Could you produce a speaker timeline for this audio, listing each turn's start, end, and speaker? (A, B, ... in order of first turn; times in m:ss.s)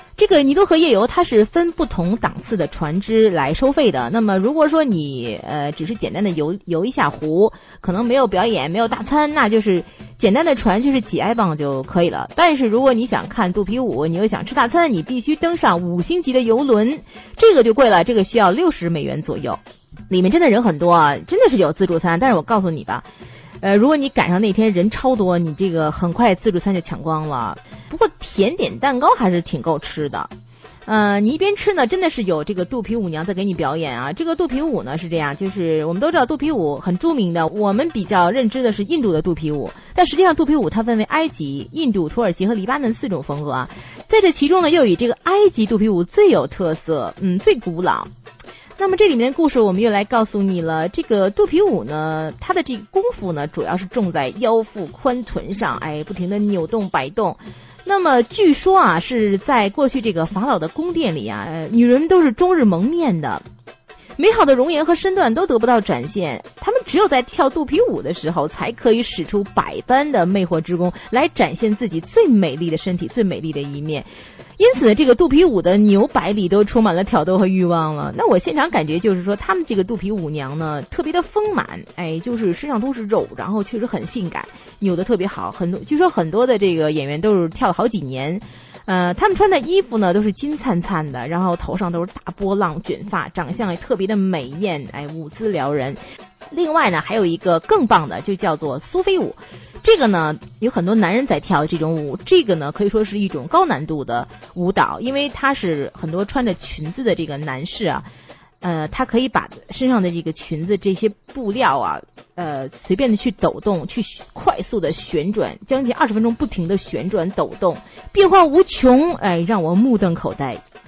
0:00.2-0:23.0 A
0:23.6-0:30.3 A
0:30.8-0:48.1 A
0:48.8-1:03.4 A
1:04.2-1:36.0 A
1:36.5-1:48.1 A
1:48.6-2:00.6 A